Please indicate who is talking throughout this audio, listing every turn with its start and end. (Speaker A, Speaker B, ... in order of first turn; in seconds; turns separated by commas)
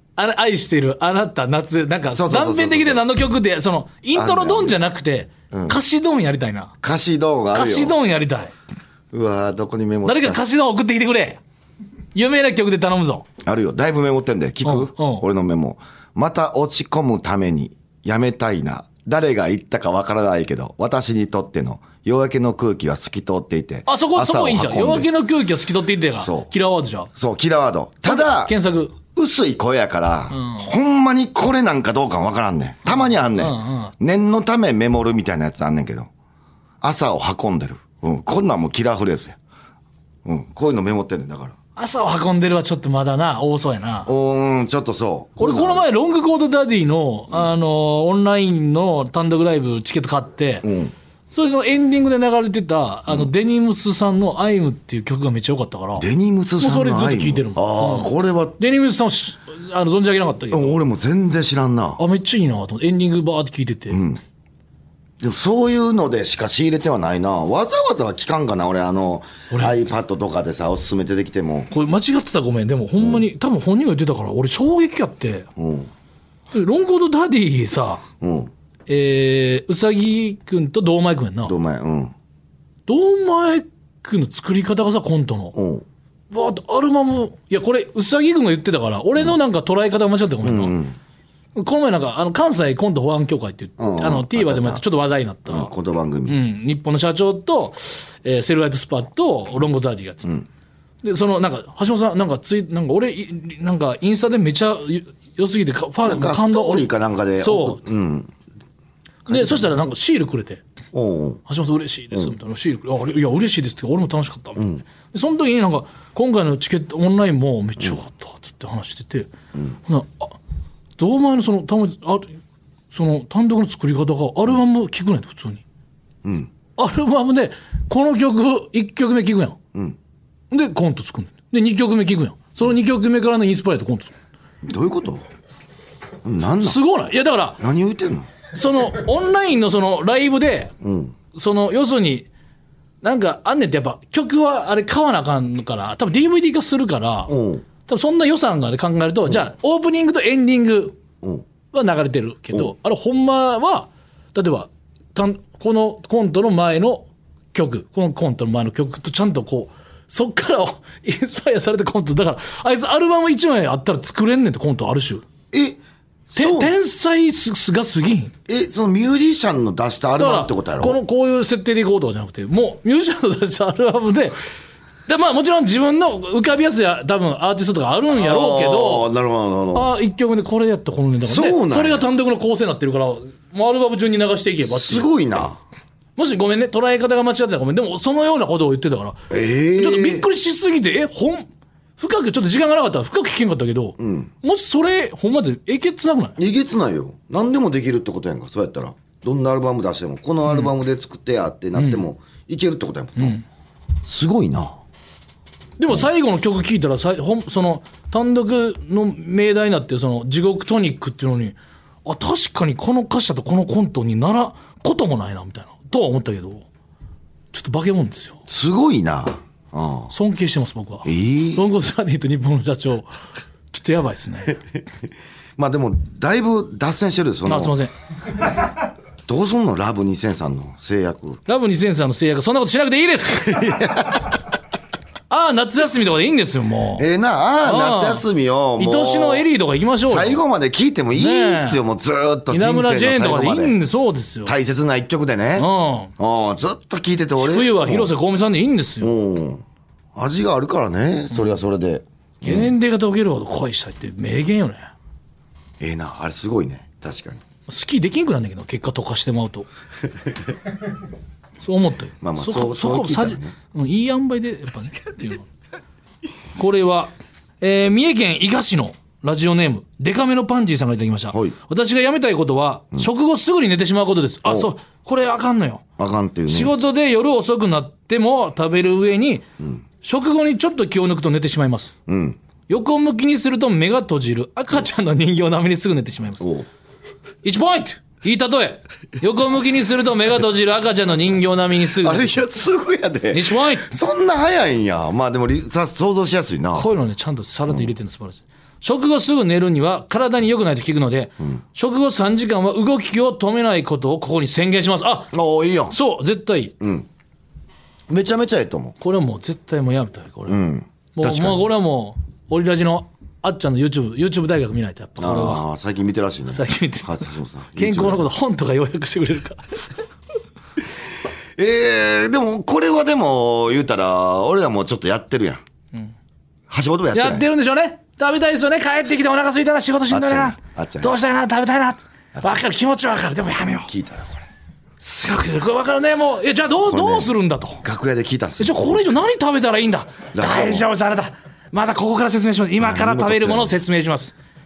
Speaker A: 0.2-6.7, Speaker B: 2.1-3.0, Speaker B: 4.2-4.8, Speaker B: 5.5-5.8, Speaker B: 6.8-8.0, Speaker A: 7.5-8.5, Speaker B: 9.1-10.4, Speaker A: 10.1-11.4, Speaker A: 12.2-13.3, Speaker B: 13.4-25.1, Speaker A: 14.7-15.2, Speaker A: 23.9-27.1, Speaker B: 26.2-26.5, Speaker B: 27.1-36.1, Speaker A: 28.1-28.9, Speaker A: 30.3-30.7, Speaker A: 32.9-33.9, Speaker B: 36.8-39.4, Speaker B: 40.2-41.6, Speaker A: 41.8-44.1, Speaker B: 44.1-45.9, Speaker A: 45.4-50.7, Speaker B: 50.6-50.9, Speaker A: 51.3-56.1, Speaker B: 56.0-58.6, Speaker A: 56.6-60.8, Speaker B: 60.5-62.0, Speaker A: 62.0-64.0, Speaker B: 63.9-64.2, Speaker B: 65.2-71.7, Speaker A: 69.5-69.8, Speaker A: 71.7-75.5, Speaker B: 75.6-75.9, Speaker A: 76.5-78.0, Speaker B: 78.2-78.5, Speaker A: 78.9-81.5, Speaker B: 81.5-82.1, Speaker A: 82.9-85.6, Speaker B: 85.5-85.8, Speaker A: 86.3-90.8, Speaker B: 90.4-91.0, Speaker A: 91.5-95.7, Speaker B: 93.8-94.8, Speaker B: 95.5-96.4, Speaker A: 96.3-100.4, Speaker A: 101.0-107.8, Speaker B: 106.0-108.3, Speaker B: 109.3-109.8, Speaker A: 109.3-110.6, Speaker B: 110.9-111.4, Speaker A: 111.5-119.3, Speaker B: 114.6-114.8, Speaker A: 119.9-120.3, Speaker A: 121.0-122.3, Speaker A: 122.9-125.6, Speaker B: 126.2-126.5, Speaker A: 126.8-129.6, Speaker A: 130.5-134.1, Speaker B: 134.6-135.2, Speaker B: 136.2-136.8, Speaker A: 136.6-137.6, Speaker B: 137.6-138.3, Speaker A: 138.5-140.7, Speaker B: 140.8-141.1, Speaker A: 141.3-142.3, Speaker A: 143.0-147.3, Speaker B: 147.3-147.7, Speaker A: 147.8-151.0, Speaker A: 151.7-165.2, Speaker B: 165.5-166.7, Speaker A: 166.4-168.3, Speaker B: 168.5-171.0, Speaker A: 170.2-174.4, Speaker A: 175.1-179.1, Speaker B: 178.1-179.9, Speaker A: 179.7-185.1, Speaker B: 181.2-182.1, Speaker B: 184.7-185.6, Speaker A: 186.2-189.2, Speaker B: 189.3-190.3, Speaker A: 189.8-191.5, Speaker A: 192.0-196.4, Speaker B: 194.0-194.3, Speaker B: 196.4-203.4, Speaker A: 201.8-202.0, Speaker A: 203.2-203.4, Speaker B: 204.1-204.8, Speaker A: 205.8-216.7, Speaker A: 217.5-218.4, Speaker B: 218.5-220.1, Speaker A: 220.1-223.1, Speaker B: 221.1-221.7, Speaker A: 223.7-224.6, Speaker B: 225.6-227.8, Speaker A: 227.5-227.9, Speaker B: 229.3-231.4, Speaker A: 231.5-233.6, Speaker B: 233.2-234.4, Speaker A: 235.3-237.1, Speaker B: 237.0-239.5, Speaker A: 237.6-238.2, Speaker A: 238.8-240.4, Speaker B: 240.1-243.8, Speaker A: 241.2-241.8, Speaker A: 242.5-244.6, Speaker B: 244.4-248.1, Speaker A: 245.6-246.1, Speaker A: 247.4-249.1, Speaker B: 249.0-249.6, Speaker B: 250.2-252.7, Speaker A: 252.4-254.9, Speaker B: 255.8-257.4, Speaker A: 257.7-259.7, Speaker A: 261.6-265.5, Speaker B: 262.2-263.5, Speaker A: 266.6-275.8, Speaker B: 271.3-271.6, Speaker B: 274.4-274.7, Speaker B: 276.0-276.7, Speaker A: 276.5-279.5, Speaker A: 280.0-281.9, Speaker B: 282.1-282.4, Speaker A: 282.7-286.5, Speaker B: 286.4-286.7, Speaker A: 287.4-292.4, Speaker B: 292.0-296.9, Speaker A: 293.3-293.9, Speaker A: 296.7-305.3, Speaker B: 305.3-306.0, Speaker A: 305.9-306.8, Speaker B: 306.8-307.1, Speaker B: 308.1-309.0, Speaker A: 309.0-310.6, Speaker B: 310.5-311.6, Speaker A: 311.1-315.6, Speaker B: 315.2-318.3, Speaker A: 316.5-317.1, Speaker A: 317.8-319.6, Speaker B: 321.6-325.6, Speaker B: 326.7-327.5, Speaker A: 327.1-333.9, Speaker B: 330.1-331.1, Speaker B: 332.4-332.6, Speaker B: 333.9-334.4, Speaker A: 335.0-337.8, Speaker B: 336.9-339.1, Speaker A: 338.6-344.4, Speaker B: 340.3-340.9, Speaker B: 342.8-343.8